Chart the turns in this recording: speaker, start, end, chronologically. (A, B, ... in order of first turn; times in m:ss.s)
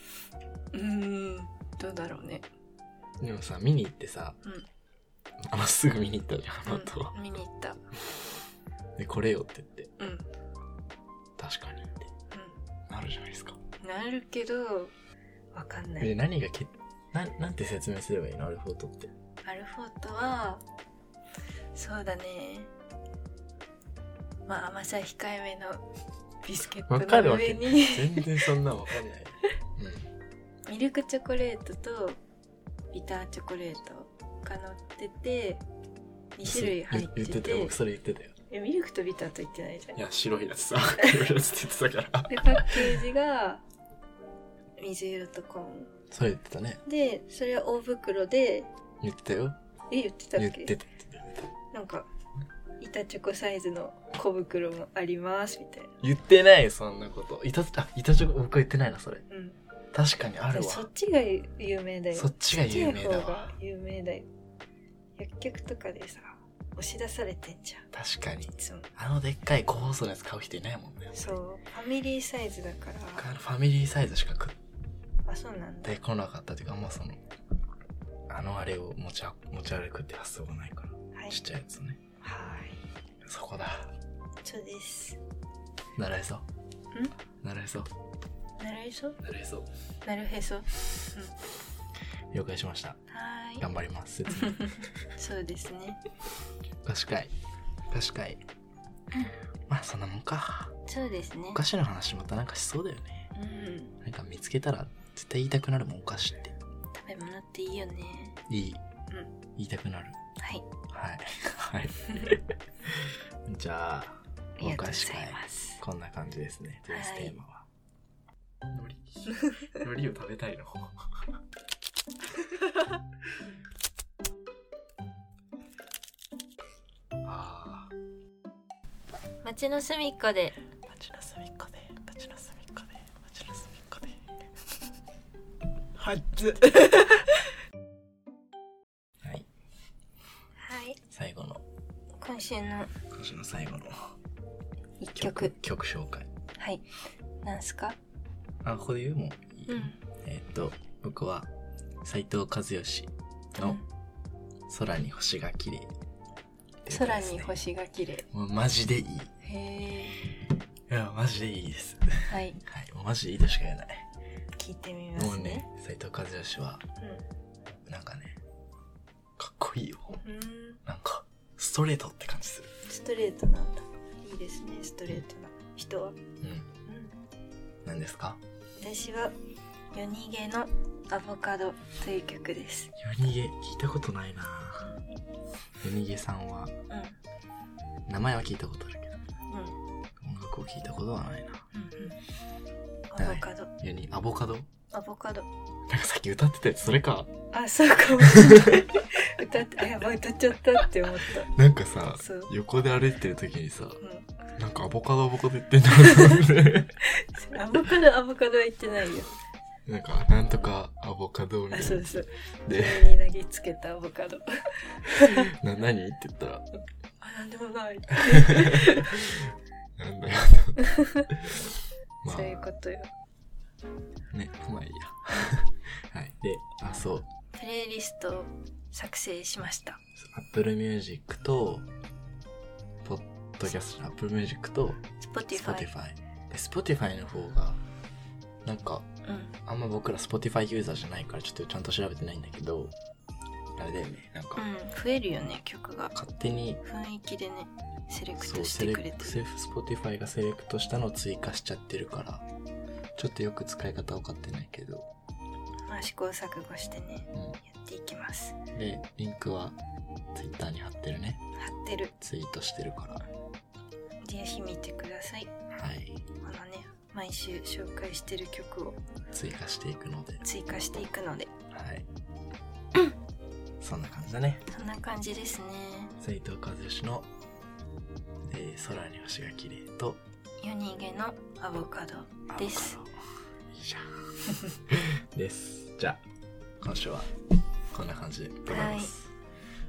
0:00.7-0:02.4 A
0:03.2-0:04.4 B
0:04.4-0:04.7 A
0:05.4-0:07.2 B
0:06.6-0:07.8 A
0:09.0-0:09.9 B
0:10.0-0:10.2 A
0:11.4-0:12.1 B
0:12.3-0:12.6 A
0:12.9-0:13.6 B
0:13.8-0:14.9 A
0:15.5-0:16.1 A
0:16.0-0:19.1 B
0:19.4-0:20.6 A
0:21.7-0:22.7 A
0:24.5-0:25.8 A
0:26.4-0:28.5 A
0:26.9-0:30.1 B
0:30.7-0:32.2 A
0:32.9-0:35.6 A
0:36.4-0:37.8 A
0:36.4-0:38.3 B
0:38.5-0:40.0 A
0:39.9-0:43.0 B
0:42.3-0:43.6 A
0:44.8-0:45.9 A
0:46.1-0:46.8 B
0:46.8-0:48.7 A
0:49.0-0:49.6 B
0:49.9-0:50.7 A
0:50.4-0:51.5 B
0:51.7-0:52.1 A
0:52.8-0:55.9 A
0:56.0-0:59.2 B
0:59.3-0:59.6 A
0:59.9-1:00.9 B
1:00.5-1:04.3 A
1:02.1-1:03.5 B
1:05.2-1:07.9 A
1:07.9-1:11.4 B
1:08.6-1:08.9 A
1:11.1-1:13.3 A
1:13.2-1:14.6 B
1:15.2-1:15.9 A
1:15.8-1:17.2 B
1:18.3-1:22.0 B
1:21.1-1:21.4 A
1:22.2-1:22.8 A
1:23.2-1:23.9 B
1:24.4-1:25.2 A
1:26.0-1:26.4 B
1:27.4-1:27.9 B
1:28.6-1:29.2 A
1:29.2-1:29.7 B
1:30.0-1:31.3 A
1:32.3-1:33.0 B
1:33.1-1:33.6 A
1:33.6-1:34.9 B
1:34.3-1:36.0 A
1:36.8-1:37.3 B
1:37.9-1:38.4 B
1:39.7-1:40.8 B
1:40.9-1:41.6 A
1:41.5-1:43.3 B
1:43.3-1:43.9 A
1:44.0-1:46.6 B
1:47.0-1:48.4 A
1:48.5-1:48.8 B
1:49.6-1:50.2 B
1:50.4-1:50.6 A
1:50.9-1:57.6 B
1:54.6-1:55.8 A
1:56.9-1:57.3 A
1:58.7-2:01.3 B
2:07.2-2:07.9 B
2:09.4-2:10.6 A
2:10.9-2:14.2 B
2:16.0-2:17.3 B
2:19.2-2:19.5 B
2:20.6-2:21.0 A
2:21.1-2:21.6 B
2:22.2-2:22.9 A
2:23.1-2:24.1 B
2:25.0-2:25.5 A
2:25.2-2:26.3 B
2:26.6-2:26.8 A
2:27.4-2:28.0 A
2:28.6-2:31.5 B
2:29.7-2:30.0 A
2:32.0-2:33.8 B
2:33.6-2:33.8 A
2:34.7-2:35.9 B
2:36.8-2:37.5 B
2:36.9-2:38.2 A
2:38.3-2:39.3 B
2:39.4-2:40.3 A
2:40.9-2:44.1 B
2:42.3-2:42.6 A
2:44.6-2:45.6 A
2:45.2-2:46.8 B
2:47.8-2:48.4 B
2:49.4-2:50.2 B
2:50.2-2:50.8 A
2:50.8-2:52.7 B
2:52.8-2:56.2 A
2:56.4-2:56.7 B
2:56.8-2:57.1 A
2:57.8-2:58.4 B
2:58.8-2:59.3 A
2:59.9-3:02.9 A
3:03.0-3:05.0 B
3:04.8-3:05.0 A
3:05.8-3:06.7 B
3:06.9-3:07.2 A
3:08.1-3:09.2 B
3:09.5-3:09.8 A
3:10.2-3:11.6 B
3:11.7-3:12.2 A
3:13.1-3:13.7 A
3:13.2-3:14.7 B
3:14.9-3:15.5 A
3:15.9-3:17.3 B
3:17.5-3:21.5 A
3:18.2-3:19.0 B
3:21.4-3:24.0 B
3:22.1-3:22.5 A
3:24.0-3:24.3 A
3:24.6-3:27.0 B
3:26.0-3:26.4 A
3:27.0-3:29.4 A
3:29.8-3:32.1 B
3:31.7-3:35.5 A
3:32.6-3:33.1 B
3:35.2-3:36.6 B
3:37.2-3:39.2 A
3:38.1-3:41.7 B
3:40.8-3:41.3 A
3:42.2-3:42.6 B
3:42.2-3:43.1 A
3:44.3-3:47.3 B
3:47.6-3:50.0 A
3:50.2-3:51.9 B
3:53.0-3:55.0 B
3:55.2-3:55.9 A
3:55.5-3:57.8 B
3:58.6-3:59.1 B
3:59.2-3:59.5 A
3:59.6-4:02.9 B
4:03.8-4:04.6 B
4:04.6-4:06.1 A
4:06.1-4:06.8 B
4:06.8-4:09.4 A
4:08.4-4:12.4 B
4:13.2-4:15.1 B
4:15.9-4:18.6 A
4:18.7-4:19.8 B
4:20.3-4:21.4 B
4:21.6-4:22.1 A
4:22.2-4:23.2 B
4:24.2-4:25.5 A
4:25.7-4:26.2 B
4:26.4-4:29.0 A
4:29.3-4:30.4 B
4:30.4-4:31.5 A
4:31.7-4:32.0 B
4:33.8-4:34.6 B
4:34.7-4:36.1 A
4:36.2-4:37.3 B
4:38.4-4:40.2 B
4:40.6-4:43.0 A
4:42.5-4:43.1 B
4:43.7-4:46.2 B
4:46.8-4:47.3 B
4:47.9-4:49.3 B
4:48.7-4:49.1 A